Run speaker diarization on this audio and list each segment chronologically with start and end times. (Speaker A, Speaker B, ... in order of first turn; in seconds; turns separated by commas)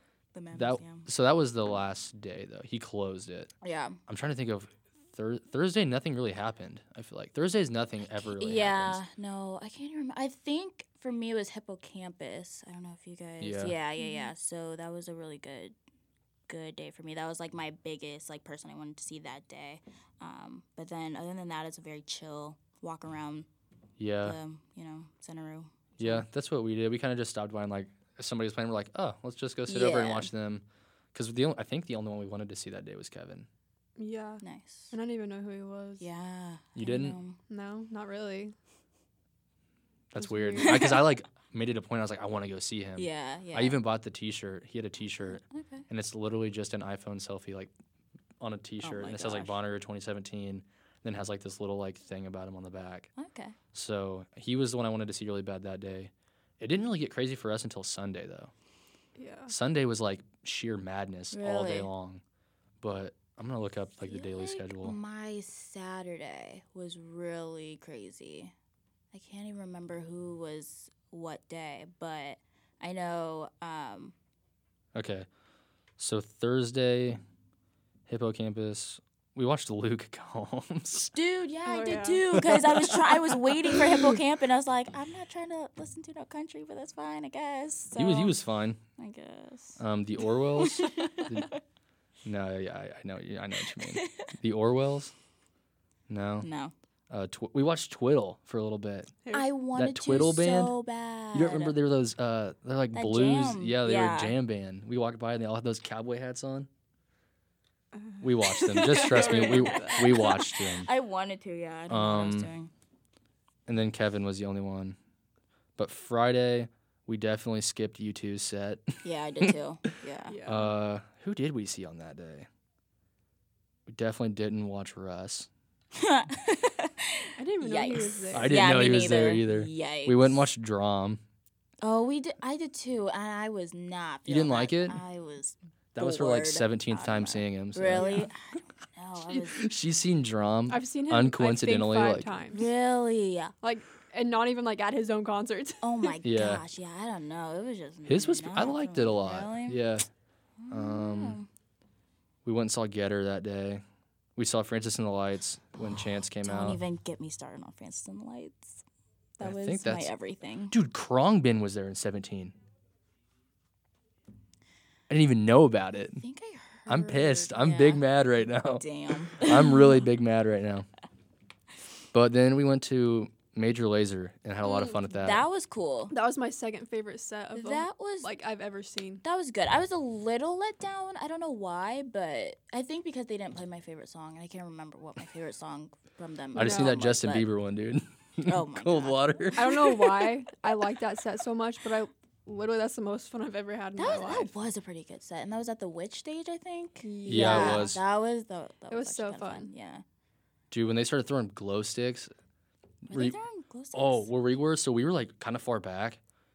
Speaker A: 0.3-1.1, Speaker B: 0.5-3.5, Speaker A: 3.6-4.0, Speaker B: 4.1-9.0, Speaker A: 8.3-15.7, Speaker B: 13.4-13.7, Speaker C: 14.0-14.3, Speaker A: 16.5-23.5, Speaker B: 24.0-24.4, Speaker A: 24.2-26.2, Speaker B: 26.0-33.5, Speaker A: 29.7-30.3, Speaker C: 34.0-36.1, Speaker A: 34.4-34.9, Speaker A: 36.0-37.4, Speaker B: 36.8-37.2, Speaker C: 37.5-38.5, Speaker B: 40.1-47.7, Speaker C: 40.2-41.0, Speaker A: 43.0-43.8, Speaker A: 45.3-45.9, Speaker B: 48.4-53.1, Speaker A: 48.8-49.6, Speaker A: 53.2-53.5, Speaker B: 53.7-58.5, Speaker C: 59.1-59.5, Speaker B: 59.5-62.2, Speaker A: 61.3-61.9, Speaker B: 62.8-65.0, Speaker A: 64.1-68.5, Speaker A: 69.1-74.1, Speaker B: 74.9-75.3, Speaker B: 76.0-77.2, Speaker B: 78.1-81.1, Speaker A: 81.1-88.3, Speaker C: 81.7-82.3, Speaker B: 82.3-84.2, Speaker B: 88.0-88.8, Speaker A: 89.0-89.8, Speaker B: 89.8-91.5, Speaker A: 90.5-91.6, Speaker B: 92.2-95.1, Speaker A: 93.7-94.3, Speaker B: 96.1-96.5, Speaker A: 96.4-96.7, Speaker B: 97.1-99.1, Speaker A: 99.3-101.8, Speaker B: 99.7-100.8, Speaker B: 101.3-106.7, Speaker A: 102.9-104.3, Speaker C: 108.0-110.4, Speaker B: 108.2-110.9, Speaker A: 108.8-112.7, Speaker B: 111.9-112.5, Speaker B: 113.7-115.0, Speaker B: 115.8-119.5, Speaker A: 119.0-120.4, Speaker C: 120.3-120.7, Speaker B: 120.4-122.5, Speaker B: 123.9-125.5, Speaker A: 125.9-130.4, Speaker C: 127.4-128.7, Speaker B: 128.3-131.2, Speaker A: 131.8-139.6, Speaker B: 134.2-135.0, Speaker B: 135.9-138.2, Speaker C: 137.9-138.3, Speaker B: 139.6-142.3, Speaker C: 140.7-142.7, Speaker A: 142.5-143.5, Speaker C: 143.6-146.1, Speaker A: 145.8-149.8, Speaker B: 146.2-146.6, Speaker B: 148.1-150.1, Speaker A: 150.6-151.5, Speaker B: 150.7-151.4, Speaker B: 152.4-153.8, Speaker B: 154.3-156.8, Speaker A: 156.4-158.8, Speaker A: 159.4-160.8, Speaker B: 159.4-160.1, Speaker B: 160.7-162.5, Speaker B: 165.1-166.2, Speaker A: 166.2-168.0, Speaker B: 166.9-170.9, Speaker A: 168.7-169.9, Speaker B: 172.1-175.4, Speaker A: 174.7-176.1, Speaker C: 176.1-179.2, Speaker A: 177.5-178.3, Speaker A: 179.2-187.5, Speaker B: 186.5-190.2, Speaker C: 186.6-186.9, Speaker A: 188.4-189.6, Speaker C: 189.5-194.5, Speaker A: 194.0-200.0, Speaker C: 197.0-197.9, Speaker B: 197.3-198.0, Speaker C: 198.9-199.7, Speaker B: 200.7-202.3, Speaker B: 203.1-203.4, Speaker A: 203.1-204.3, Speaker B: 203.9-206.2